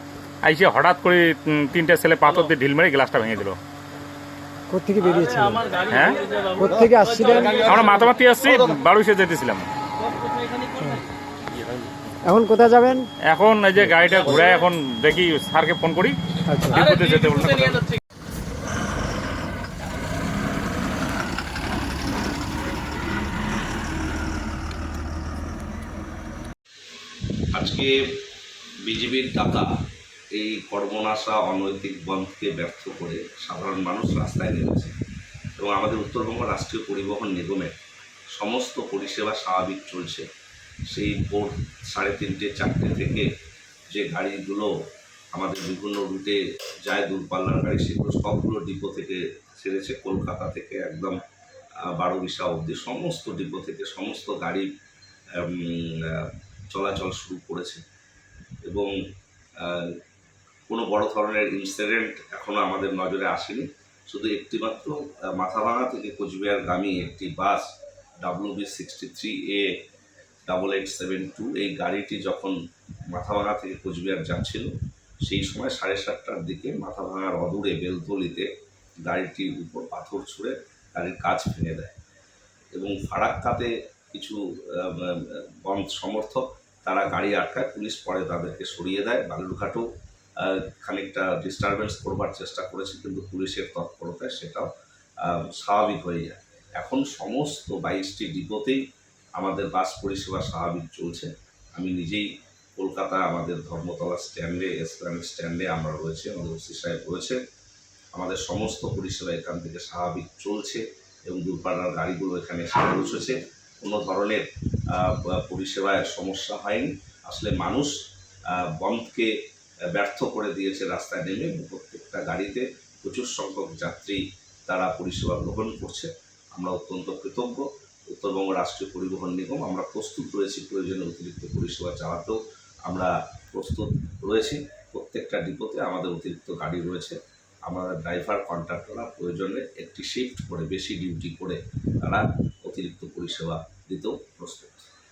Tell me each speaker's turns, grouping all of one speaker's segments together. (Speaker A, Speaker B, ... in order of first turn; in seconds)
Speaker A: 0.4-3.6, 5.9-6.2, 7.6-9.7, 13.3-16.2, 16.7-17.9
Speaker B: 4.7-5.8, 6.5-7.7, 12.2-13.1, 16.5-16.8
Speaker C: 27.5-28.2, 28.8-29.7, 30.3-34.9, 35.6-37.8, 38.3-40.2, 40.9-43.3, 43.9-44.7, 45.3-51.2, 51.8-54.7, 55.4-57.8, 58.7-58.9, 59.6-60.0, 60.7-67.7, 68.2-69.7, 70.5-72.6, 73.1-74.7, 75.2-78.5, 79.1-81.9, 82.8-89.8, 90.4-94.7, 95.2-98.8, 99.4-102.3, 102.8-107.4, 108.1-118.0, 118.5-119.3, 119.9-144.8